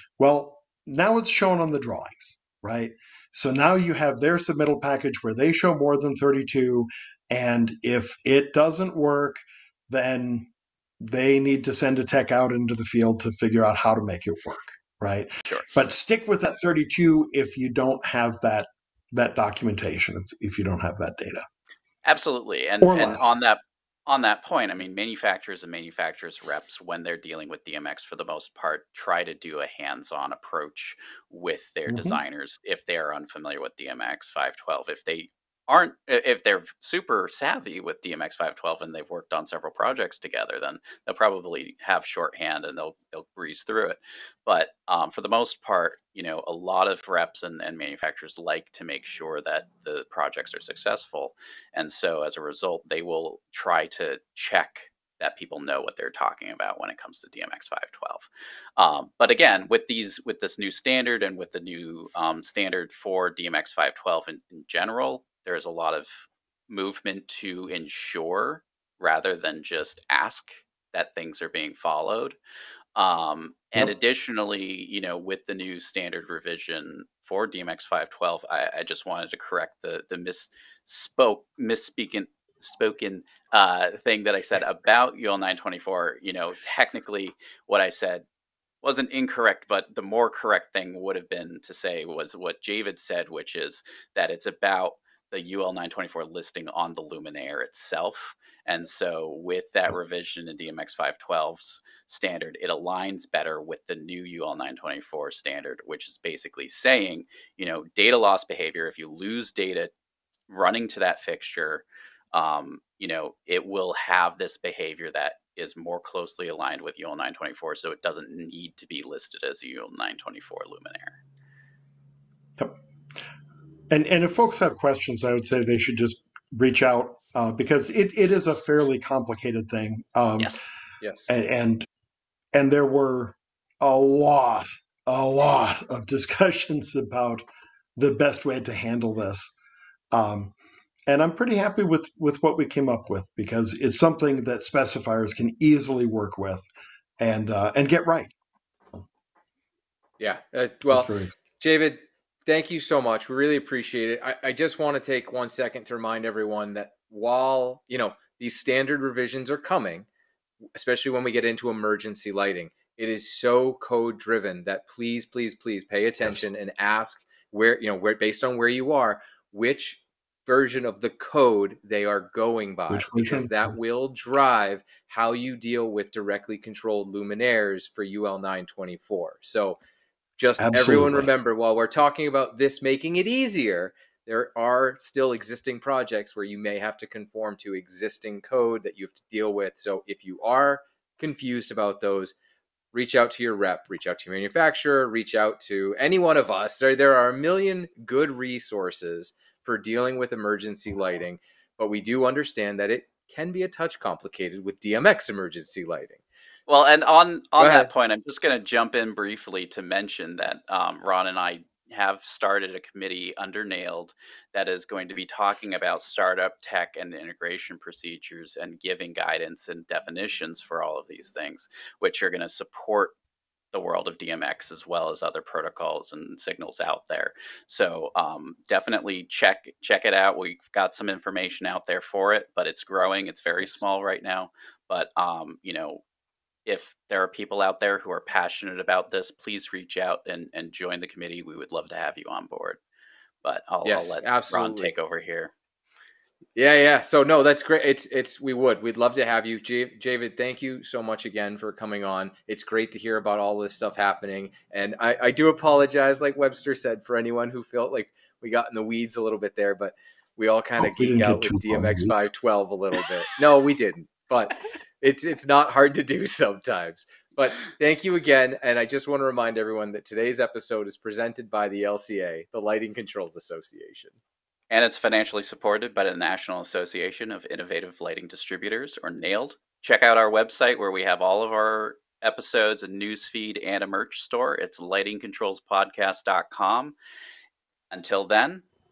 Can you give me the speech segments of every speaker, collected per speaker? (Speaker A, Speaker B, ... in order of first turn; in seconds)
Speaker A: 0.2-21.4, 22.8-23.3, 31.9-32.2, 123.9-130.6, 131.3-131.8, 132.5-137.4, 138.0-139.5, 140.1-140.5, 141.1-146.7, 147.2-148.3, 150.9-151.3, 172.9-173.7, 180.6-181.3, 260.8-262.3
Speaker B: 22.1-72.4, 73.0-88.2, 88.8-109.9, 110.5-121.2, 130.4-130.7, 206.7-223.1, 223.7-236.0, 236.7-242.8, 243.4-245.5, 274.7-286.9, 287.9-288.6
Speaker C: 131.0-131.3, 150.2-160.1, 160.8-179.8, 180.4-192.3, 192.9-206.2, 207.6-207.9, 243.8-244.9, 246.6-274.2